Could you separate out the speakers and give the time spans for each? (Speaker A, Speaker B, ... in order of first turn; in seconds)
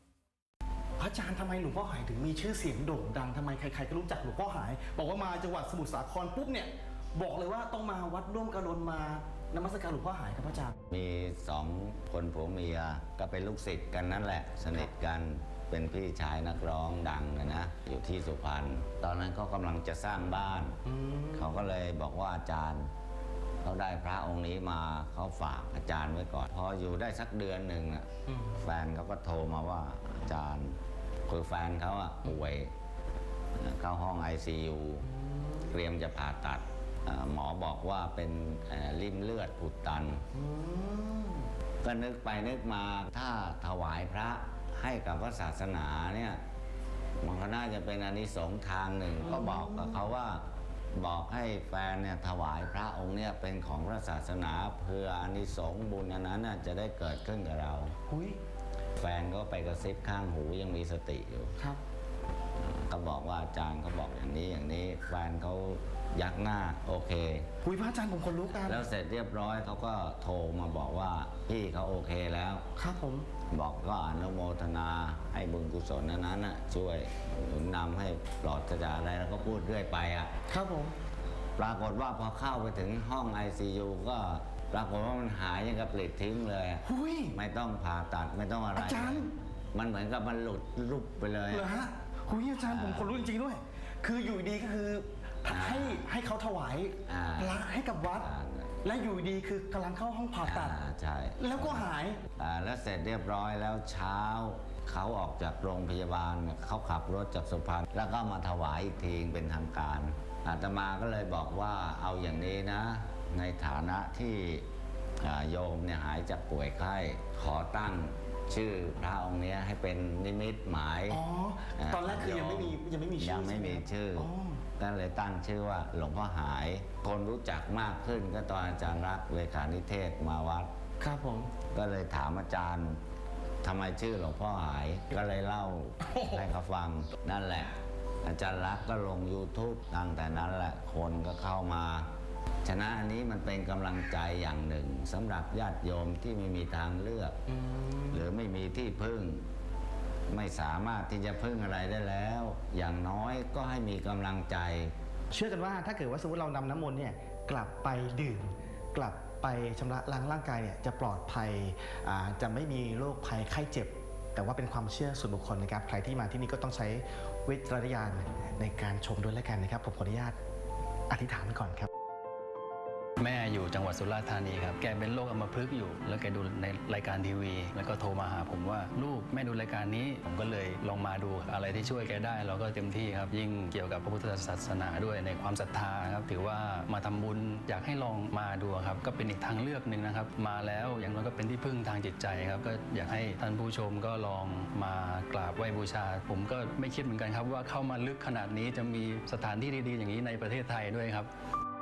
Speaker A: 1.0-10.7, 20.9-21.3, 40.3-41.4, 49.2-50.0, 58.1-58.4, 67.6-68.8, 72.8-73.3, 80.5-80.9, 86.8-87.3, 88.8-89.3, 91.5-98.3, 98.8-100.8, 101.4-102.2, 121.1-124.6, 131.0-131.5, 147.7-148.0, 155.3-170.4, 171.1-171.9
Speaker B: 10.9-20.8, 21.3-22.9, 23.6-30.8, 31.3-32.7, 33.5-35.0, 35.6-40.2, 41.8-46.4, 47.2-50.4, 50.9-57.9, 59.0-61.5, 62.6-67.5, 68.5-72.6, 73.5-80.3, 81.6-91.7, 92.6-93.3, 95.5-96.0, 97.1-98.8, 100.4-114.7, 115.2-121.2, 121.7-130.7, 131.7-133.0, 133.6-137.7, 138.2-142.1, 142.6-147.3, 148.1-149.4, 150.3-154.9
Speaker C: 173.2-201.3